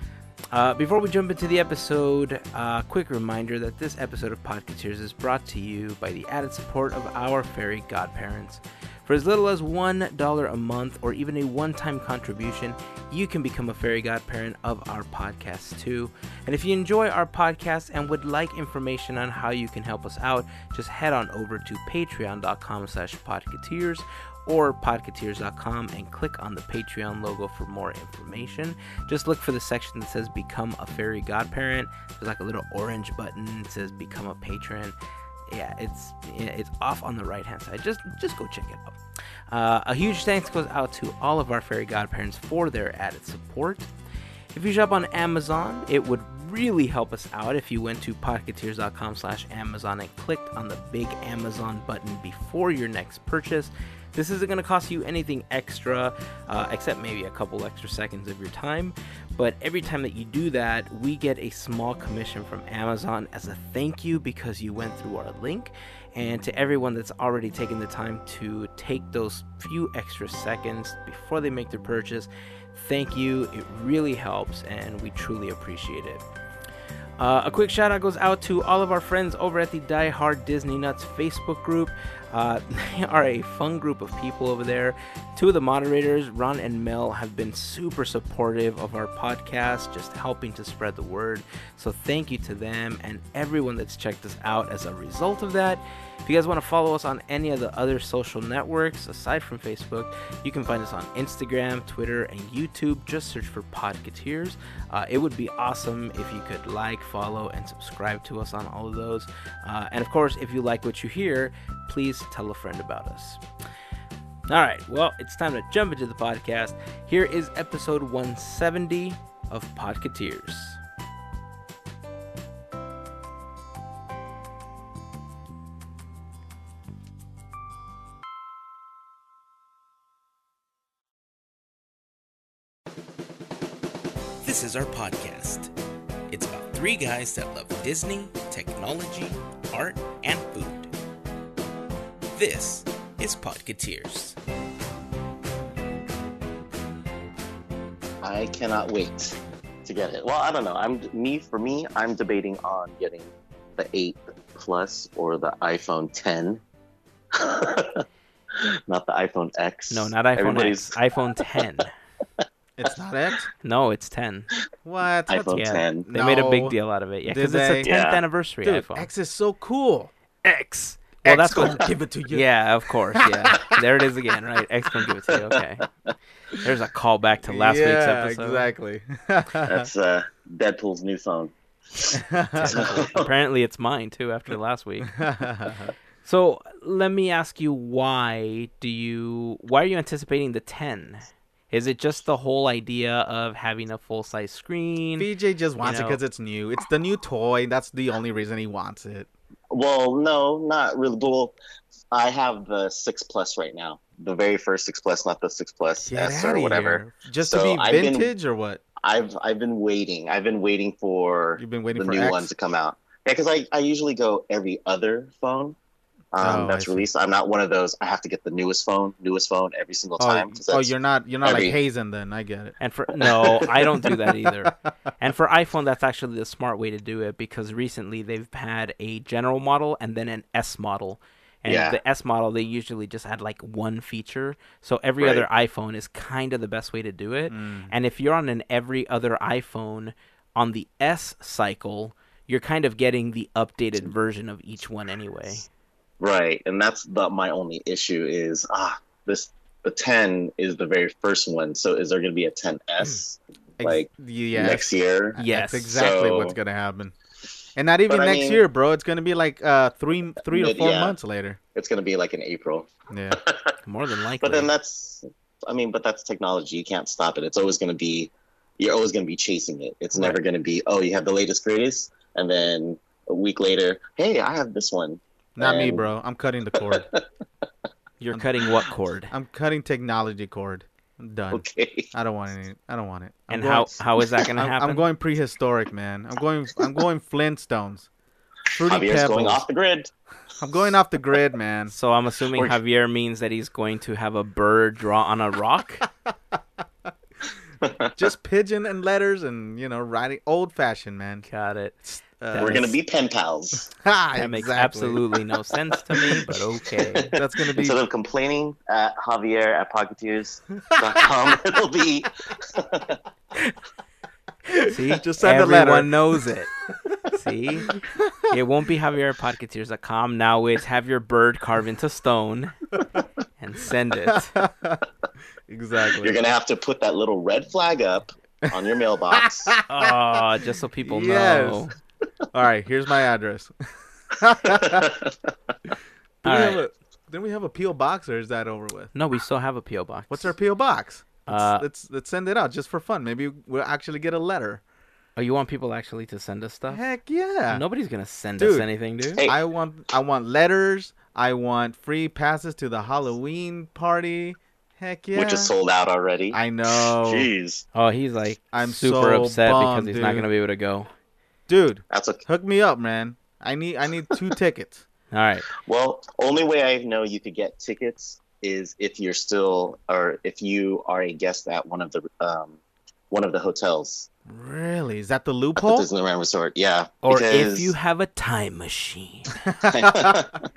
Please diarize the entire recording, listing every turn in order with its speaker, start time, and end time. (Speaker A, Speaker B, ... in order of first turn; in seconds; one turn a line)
Speaker A: 0.5-35.0
Speaker A: 35.5-39.0
Speaker A: 39.5-43.9
Speaker A: 44.5-76.2
Speaker A: 77.2-113.4
Speaker A: 114.5-120.8
Speaker A: 134.4-135.7
Speaker A: 136.3-140.9
Speaker A: 142.3-144.4
Speaker B: 148.2-156.6
Speaker B: 157.3-158.0
Speaker B: 158.6-161.4
Speaker A: 159.9-161.9
Speaker C: 162.8-163.5
Speaker A: 163.6-164.5
Speaker C: 164.8-166.7
Speaker B: 165.3-166.1
Speaker A: 165.4-169.1
Speaker C: 167.2-167.9
Speaker B: 167.8-168.2
Speaker C: 168.6-170.1
Speaker A: 170.4-175.8
Speaker C: 171.2-172.4
Speaker C: 173.2-173.8
Speaker B: 175.3-175.6
Speaker A: 176.6-178.7
Speaker C: 177.5-179.9
Speaker B: 179.6-183.3
Speaker C: 182.1-182.9
Speaker A: 182.6-185.1
Speaker C: 185.1-185.9
Speaker A: 186.2-195.3
Speaker C: 195.2-199.3
Speaker A: 195.8-196.2
Speaker B: 199.7-201.6
Speaker B: 202.1-208.3
Speaker C: 206.0-208.8
Speaker B: 209.0-215.8
Speaker C: 211.6-212.5
Speaker B: 216.3-220.9
Speaker C: 216.4-217.1
Speaker C: 220.2-222.7
Speaker B: 221.4-221.8
Speaker A: 222.8-245.7
Speaker B: 223.2-223.9
Speaker B: 231.7-232.0
Speaker B: 235.2-235.4
Speaker C: 237.5-237.9
Speaker B: 246.2-255.4
Speaker C: 253.8-254.9
Speaker A: 255.4-256.0
Speaker C: 255.4-257.1
Speaker B: 255.9-256.6
Speaker C: 257.8-261.6
Speaker B: 258.1-258.6
Speaker B: 260.5-261.1
Speaker B: 261.7-263.7
Speaker C: 263.1-263.4
Speaker A: 263.8-264.7
Speaker B: 264.4-276.1
Speaker C: 270.1-270.4
Speaker C: 275.6-277.1
Speaker B: 276.7-277.2
Speaker A: 278.2-279.3
Speaker C: 279.3-283.9
Speaker B: 281.5-282.1
Speaker A: 283.5-285.1
Speaker C: 284.6-288.1
Speaker B: 288.7-290.1
Speaker C: 288.7-289.6
Speaker C: 290.6-291.9
Speaker A: 291.9-296.1
Speaker B: 297.8-298.2
Speaker C: 298.2-301.5
Speaker A: 301.4-302.0
Speaker C: 302.1-302.9
Speaker A: 302.5-302.9
Speaker B: 302.5-303.9
Speaker C: 303.9-305.3
Speaker A: 304.4-307.3
Speaker B: 306.1-313.2
Speaker C: 307.3-308.0
Speaker C: 310.9-311.3
Speaker C: 314.6-316.4
Speaker A: 314.9-316.7
Speaker A: 317.3-322.7
Speaker C: 317.9-318.4
Speaker A: 323.6-324.5
Speaker C: 324.3-325.0
Speaker C: 325.7-326.4
Speaker B: 326.2-329.7
Speaker C: 329.3-330.4
Speaker A: 329.9-331.9
Speaker C: 331.0-331.8
Speaker C: 332.5-333.7
Speaker C: 334.3-335.1
Speaker B: 334.6-335.3
Speaker A: 336.4-336.8
Speaker C: 336.4-339.1
Speaker A: 339.1-340.5
Speaker C: 340.3-344.8
Speaker A: 341.4-341.8
Speaker A: 345.4-347.0
Speaker C: 346.9-347.8
Speaker A: 347.7-349.4
Speaker C: 348.6-348.9
Speaker C: 349.4-355.7
Speaker B: 355.3-357.8
Speaker C: 356.5-357.5
Speaker A: 357.9-361.1
Speaker C: 358.7-360.4
Speaker C: 361.7-365.1
Speaker B: 362.1-362.4
Speaker A: 365.3-365.6
Speaker B: 365.8-372.8
Speaker B: 373.3-374.3
Speaker C: 374.5-376.1
Speaker B: 375.8-377.9
Speaker A: 377.2-379.5
Speaker C: 379.6-380.4
Speaker B: 379.8-380.6